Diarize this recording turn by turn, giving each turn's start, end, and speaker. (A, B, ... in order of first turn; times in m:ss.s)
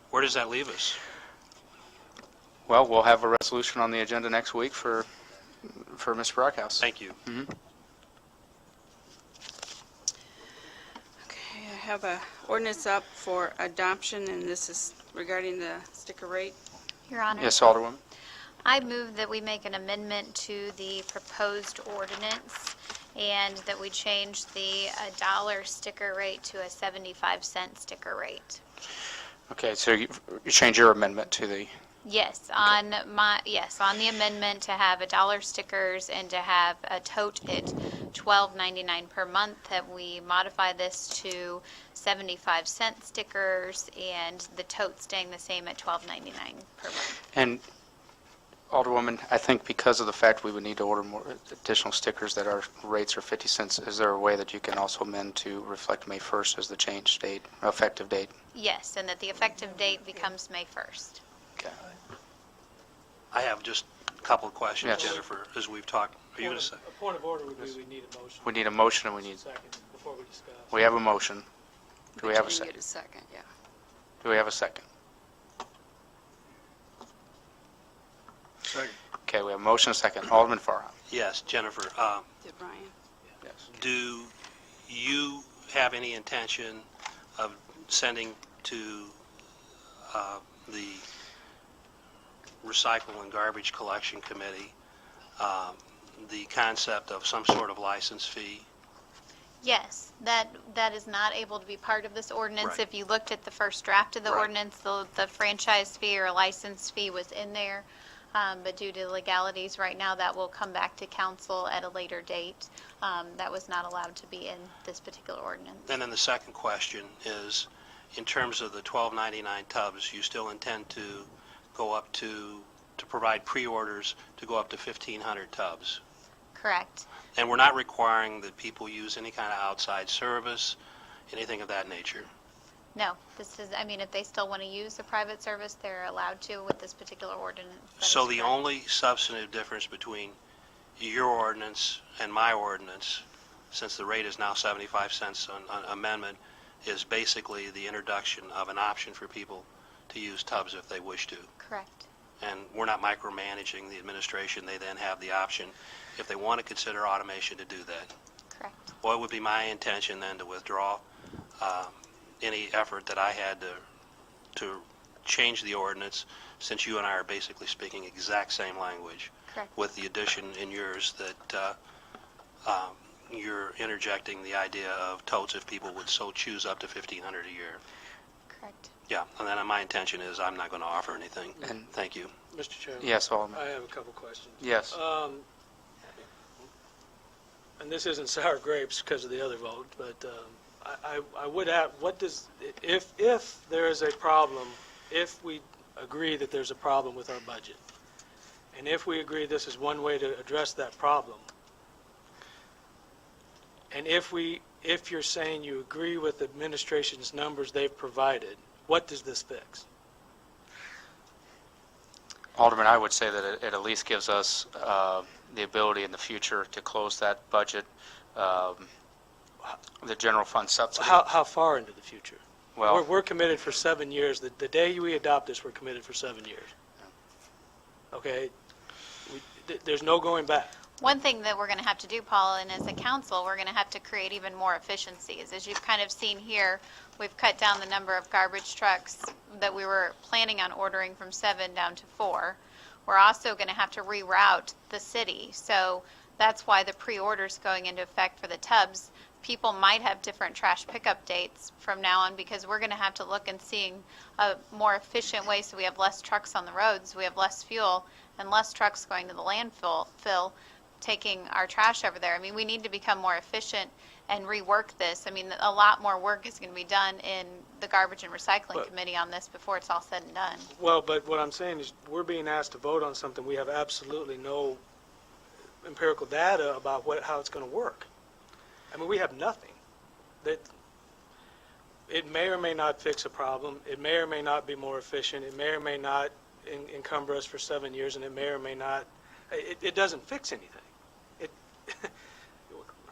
0:00.1-0:01.0 A
0:02.7-0:05.1 B
0:05.6-0:07.5 B
0:06.8-0:07.2 A
0:11.2-0:16.6 C
0:17.1-0:17.6 D
0:17.3-0:18.0 B
0:18.6-0:28.6 D
0:29.5-0:31.7 B
0:32.0-0:47.2 D
0:47.3-0:47.6 B
0:48.7-0:58.3 B
0:58.5-1:01.2 D
1:03.3-1:06.8 A
1:05.0-1:05.2 E
1:06.4-1:10.8 E
1:08.4-1:09.4 B
1:10.7-1:11.5 B
1:12.2-1:13.5 C
1:12.2-1:12.7 B
1:14.2-1:14.8 B
1:19.3-1:20.9 B
1:21.1-1:22.3 A
1:22.4-1:22.9 C
1:23.7-1:24.3 A
1:24.8-1:29.2 A
1:30.1-1:31.1 A
1:32.6-1:34.7 A
1:35.4-1:38.7 A
1:39.6-1:56.0 D
1:55.9-2:06.0 A
2:06.6-2:07.1 D
2:07.4-2:10.8 A
2:11.3-2:12.3 A
2:13.0-2:18.6 D
2:18.0-2:20.4 A
2:21.0-2:31.5 A
2:31.6-2:32.0 D
2:32.4-2:38.1 A
2:39.0-2:41.0 A
2:41.6-2:43.8 A
2:44.6-2:51.8 A
2:52.6-2:57.8 A
2:58.5-2:58.9 D
2:59.1-3:02.3 A
3:01.6-3:01.9 B
3:02.5-3:05.4 E
3:03.0-3:03.6 B
3:04.6-3:05.0 B
3:07.8-3:17.8 E
3:18.7-3:21.5 E
3:23.9-3:29.8 E
3:32.6-3:38.9 B
3:40.0-3:41.2 B
3:41.0-3:46.7 E
3:42.8-3:43.0 B
3:48.1-3:48.5 E
3:49.3-3:50.7 E
3:51.0-4:30.7 D
4:30.7-4:34.8 E
4:35.8-4:38.1 E
4:38.9-4:39.8 E
4:40.4-4:40.7 E
4:42.1-4:50.9 E
4:51.4-4:52.1 E